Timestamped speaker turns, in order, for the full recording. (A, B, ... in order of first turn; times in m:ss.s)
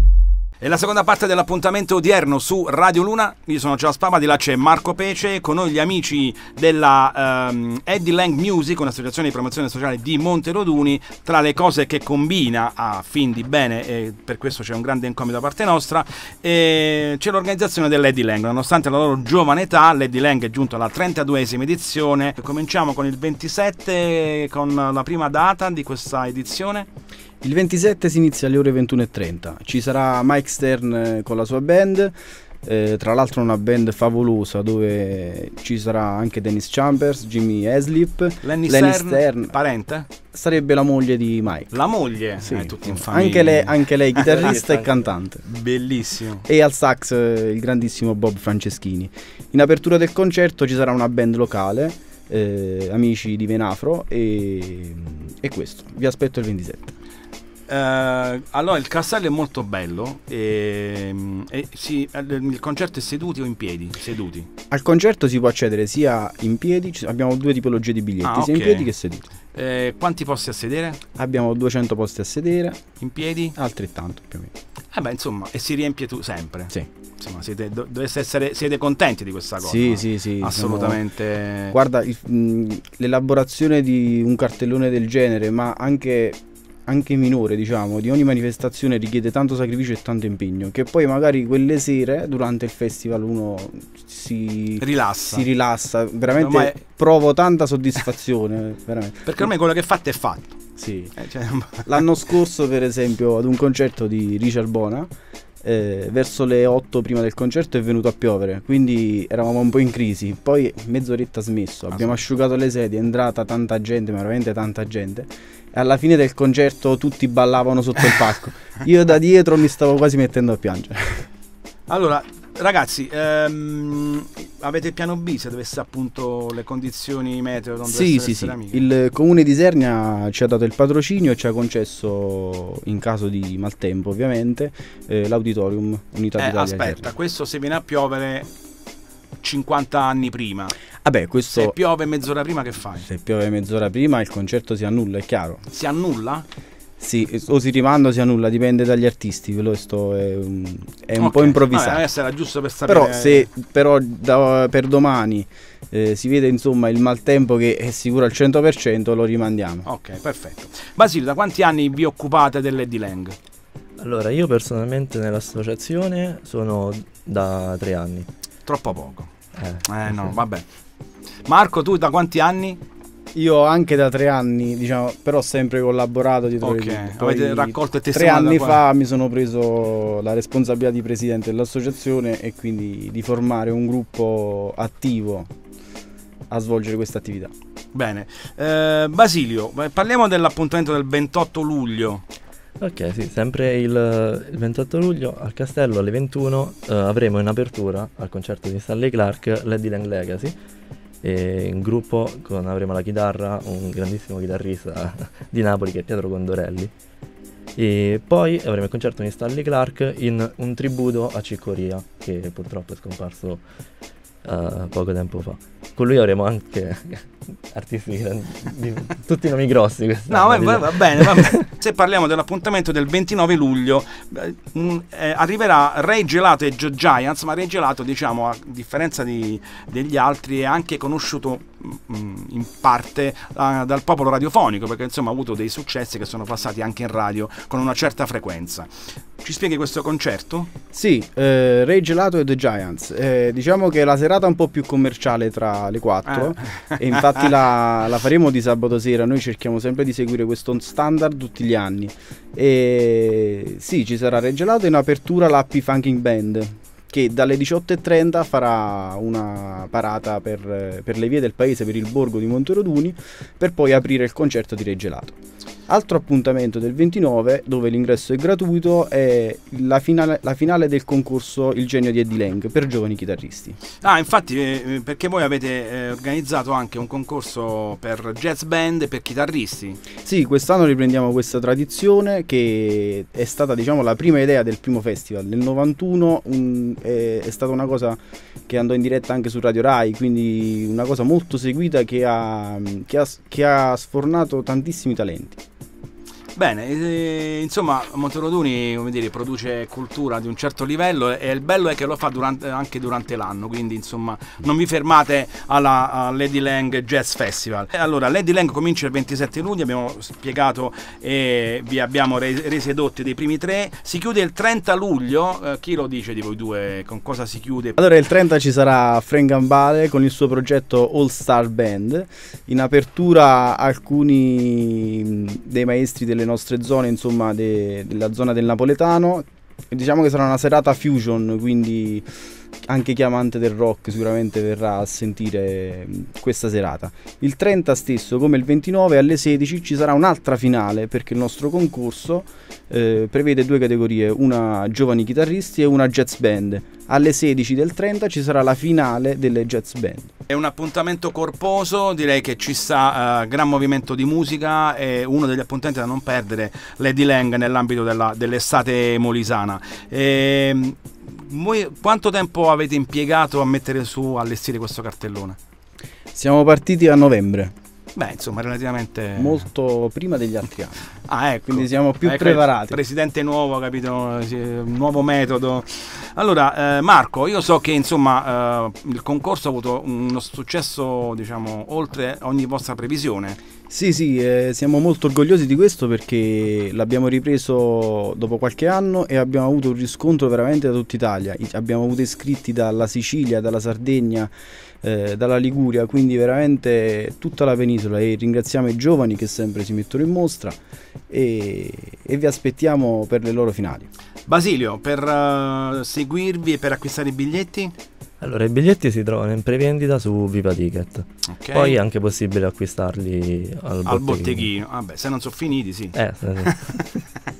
0:00.6-0:26.9 A
0:27.4-0:39.6 B
0:38.4-0:40.1 A
0:40.3-0:41.8 B
0:41.7-0:44.6 A
0:42.4-0:45.4 B
0:45.4-0:46.5 A
0:46.4-0:57.0 B
0:57.7-1:04.5 A
1:04.7-1:09.3 B
1:08.2-1:08.9 A
1:09.5-1:11.0 A
1:11.2-1:12.8 B
1:13.0-1:13.6 A
1:13.6-1:14.5 B
1:14.9-1:21.8 A
1:19.6-1:21.0 B
1:21.7-1:39.5 B
1:34.8-1:35.5 A
1:36.3-1:36.8 A
1:39.2-1:40.6 A
1:40.8-1:41.2 B
1:41.2-1:42.0 A
1:41.9-1:45.1 B
1:45.6-2:01.3 B
1:51.9-1:52.2 A
2:01.9-2:08.9 A
2:07.8-2:17.1 B
2:16.4-2:18.5 A
2:19.4-2:20.7 A
2:21.0-2:21.8 B
2:21.5-2:23.1 A
2:23.0-2:25.6 B
2:25.7-2:26.4 A
2:27.0-2:32.0 B
2:31.2-2:33.5 A
2:32.8-2:39.9 B
2:39.8-2:43.4 A
2:44.0-2:48.3 C
2:48.6-2:49.3 A
2:49.5-2:50.4 C
2:49.8-2:50.6 A
2:51.5-2:52.8 A
2:53.3-3:05.5 B
2:56.6-2:58.8 A
3:06.5-3:07.5 B
3:07.9-3:12.2 A
3:12.8-3:20.5 C
3:21.2-3:26.9 C
3:27.8-3:33.6 C
3:34.4-3:41.7 C
3:40.3-4:00.7 A
4:00.9-4:25.4 B
4:06.3-4:07.5 A
4:25.9-4:33.8 B
4:34.0-4:40.0 A
4:40.2-4:55.6 B
4:56.6-5:18.0 A
5:18.0-5:32.3 B
5:32.9-5:50.3 B
5:50.5-6:05.6 A
6:06.3-6:07.7 B
6:08.2-6:09.6 A
6:09.4-6:11.1 B
6:11.2-6:23.6 A
6:11.7-6:13.0 B
6:23.9-6:34.5 B
6:35.0-6:40.8 B
6:41.3-6:44.1 B
6:44.5-6:47.9 A
6:48.4-6:54.7 C
6:51.5-6:52.0 A
6:54.1-6:57.0 A
6:56.1-6:56.8 C